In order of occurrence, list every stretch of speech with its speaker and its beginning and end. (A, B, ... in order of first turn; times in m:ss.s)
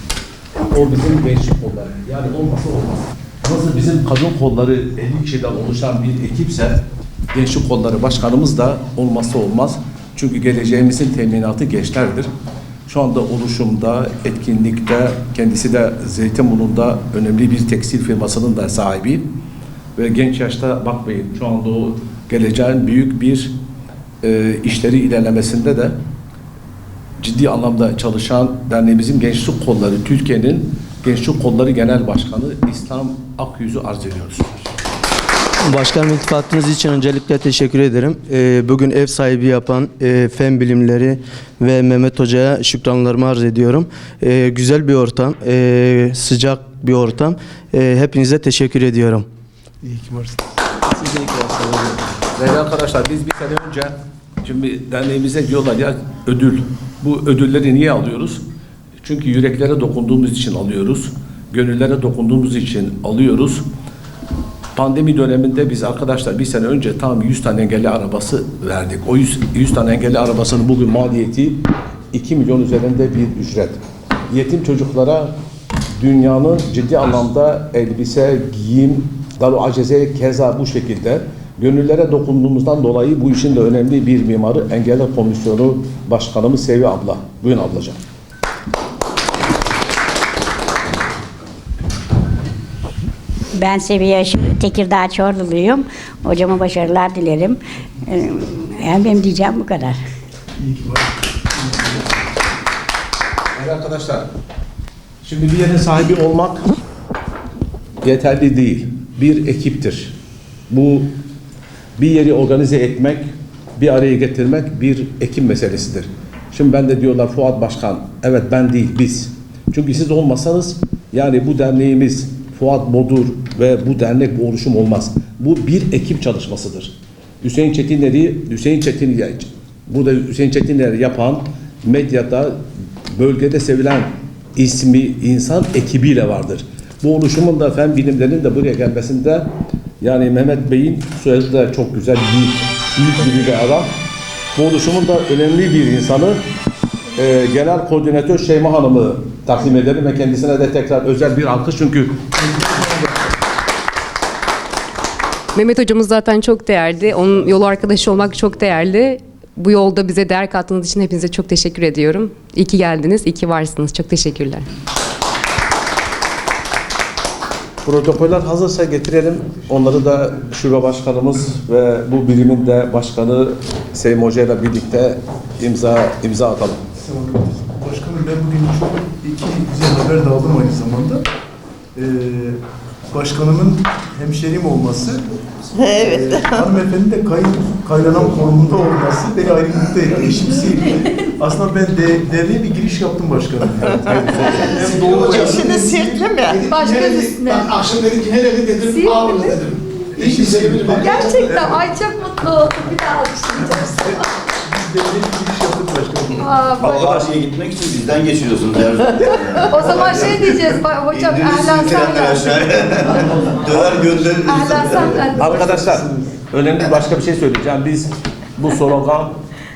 0:00.6-0:06.8 A
0:07.3-0:12.3 A
0:12.9-0:19.3 A
0:20.0-0:23.5 A
0:24.2-0:26.0 A
0:27.2-0:34.6 A
0:35.6-0:49.3 B
0:49.8-0:52.0 C
0:52.4-0:58.4 A
0:59.0-1:03.6 A
1:04.8-1:15.3 A
1:16.0-1:28.0 A
1:33.6-1:40.0 D
1:40.6-1:42.0 C
1:43.5-1:44.3 A
1:45.2-1:46.6 A
1:48.0-1:50.1 A
1:50.7-1:51.1 A
1:52.0-2:19.5 A
2:20.0-2:23.9 A
2:24.5-2:26.4 A
2:27.2-2:32.3 A
2:35.5-2:44.7 E
2:47.8-2:56.8 A
2:57.0-3:01.2 C
3:01.9-3:02.6 C
3:03.1-3:05.2 C
3:05.7-3:06.7 F
3:05.9-3:16.4 C
3:14.2-3:16.7 F
3:14.8-3:15.5 G
3:16.5-3:21.5 G
3:16.7-3:17.8 H
3:18.8-3:19.8 H
3:20.1-3:21.8 C
3:20.9-3:24.2 H
3:24.6-3:26.5 C
3:26.4-3:27.1 H
3:26.8-3:27.4 A
3:26.8-3:35.4 I
3:29.2-3:33.5 H
3:34.4-3:35.6 H
3:34.7-3:36.3 C
3:35.4-3:39.3 A